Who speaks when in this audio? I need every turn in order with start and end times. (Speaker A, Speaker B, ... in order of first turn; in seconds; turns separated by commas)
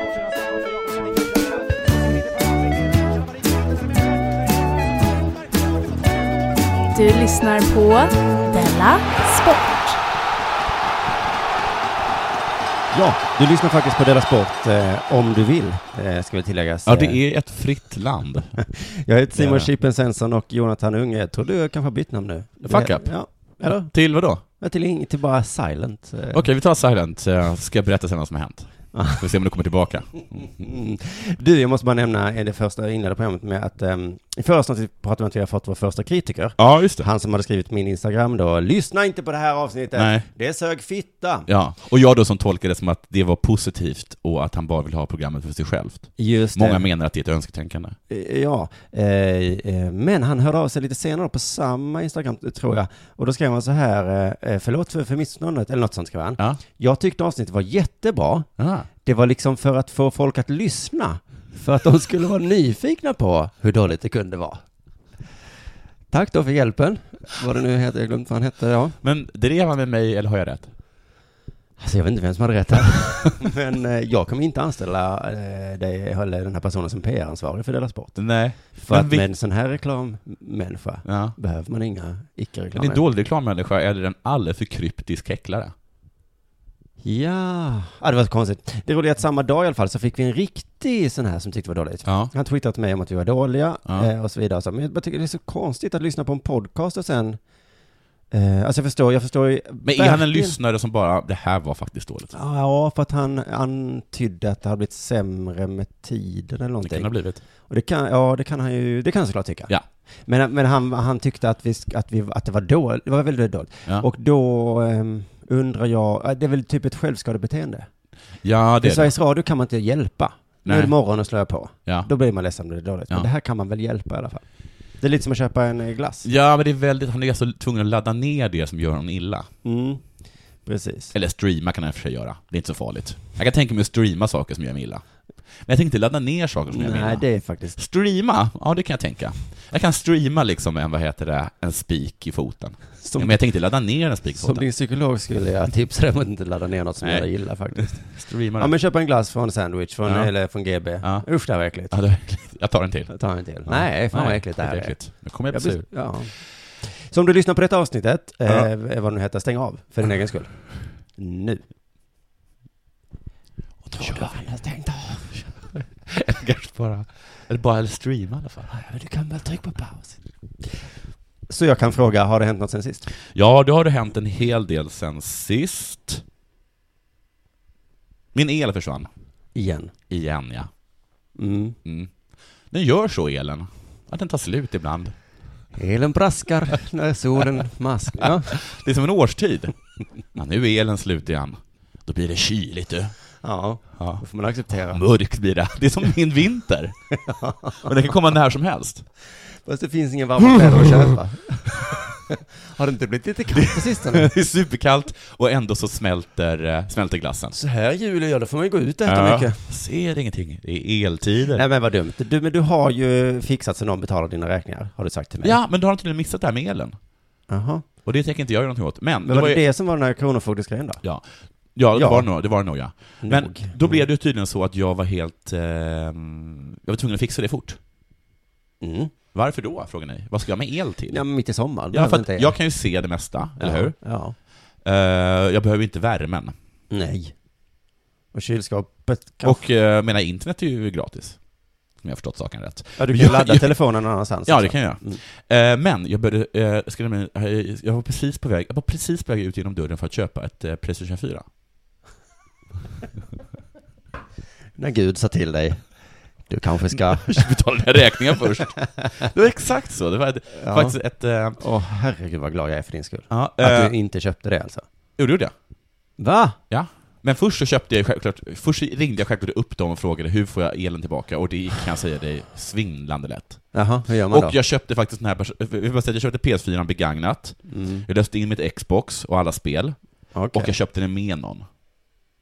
Speaker A: 6.9-10.0, Speaker B: 12.9-17.2, Speaker C: 16.9-18.8, Speaker B: 18.6-26.4, Speaker C: 19.3-19.7, Speaker C: 22.6-24.4, Speaker C: 26.3-30.6, Speaker B: 28.9-29.2, Speaker B: 30.4-41.5, Speaker C: 36.6-37.1, Speaker C: 40.0-40.3, Speaker C: 41.5-48.0, Speaker B: 46.2-46.9, Speaker B: 48.1-58.5, Speaker C: 58.6-58.9, Speaker B: 59.0-64.6, Speaker B: 66.1-69.0, Speaker C: 69.0-70.7, Speaker B: 71.8-83.0, Speaker C: 78.2-79.3, Speaker C: 81.0-81.3, Speaker C: 82.7-85.7, Speaker B: 87.0-97.4, Speaker C: 92.0-92.3, Speaker B: 98.3-100.6, Speaker C: 99.8-102.3, Speaker B: 102.3-117.9, Speaker C: 106.8-107.4, Speaker C: 118.4-119.1, Speaker B: 118.8-124.4, Speaker C: 120.6-120.9, Speaker B: 125.0-126.3, Speaker C: 126.2-129.5, Speaker B: 129.6-131.1, Speaker C: 131.1-135.0, Speaker C: 135.6-144.7, Speaker B: 136.7-137.8, Speaker B: 143.0-143.4, Speaker B: 144.3-152.0, Speaker C: 147.0-148.7, Speaker C: 150.0-156.2, Speaker B: 153.1-161.6, Speaker C: 163.9-164.4, Speaker B: 163.9-165.5, Speaker C: 165.3-168.7, Speaker B: 168.7-170.2, Speaker B: 171.5-173.0, Speaker C: 173.3-176.2, Speaker C: 178.3-179.1, Speaker B: 179.5-179.9, Speaker C: 180.1-180.7, Speaker B: 181.3-181.8, Speaker C: 181.8-185.2, Speaker B: 185.7-188.6, Speaker C: 188.2-193.2, Speaker B: 193.4-195.0, Speaker C: 193.9-197.1, Speaker B: 197.2-197.9, Speaker C: 197.8-199.1, Speaker B: 199.6-204.3, Speaker C: 203.6-207.6, Speaker B: 207.5-209.7, Speaker C: 209.1-211.6, Speaker B: 211.5-215.6, Speaker C: 215.4-216.9, Speaker B: 217.5-217.8, Speaker C: 218.0-219.6, Speaker B: 219.2-221.0, Speaker C: 221.0-227.8, Speaker B: 221.9-222.3, Speaker B: 223.2-224.0, Speaker B: 228.8-229.1, Speaker C: 229.3-231.2, Speaker B: 231.1-232.6, Speaker C: 231.9-234.0, Speaker B: 233.6-234.3, Speaker C: 234.8-236.5, Speaker B: 236.9-237.4, Speaker B: 238.3-239.6, Speaker C: 239.4-241.4, Speaker C: 241.9-243.8, Speaker B: 243.0-245.2, Speaker C: 244.4-251.4, Speaker B: 254.8-257.6, Speaker C: 256.9-261.6, Speaker B: 260.5-261.0, Speaker B: 261.6-264.8, Speaker C: 263.3-263.9, Speaker C: 265.2-265.5, Speaker B: 266.2-266.6, Speaker C: 266.7-281.6, Speaker B: 273.7-274.6, Speaker B: 277.7-278.1, Speaker B: 280.3-280.7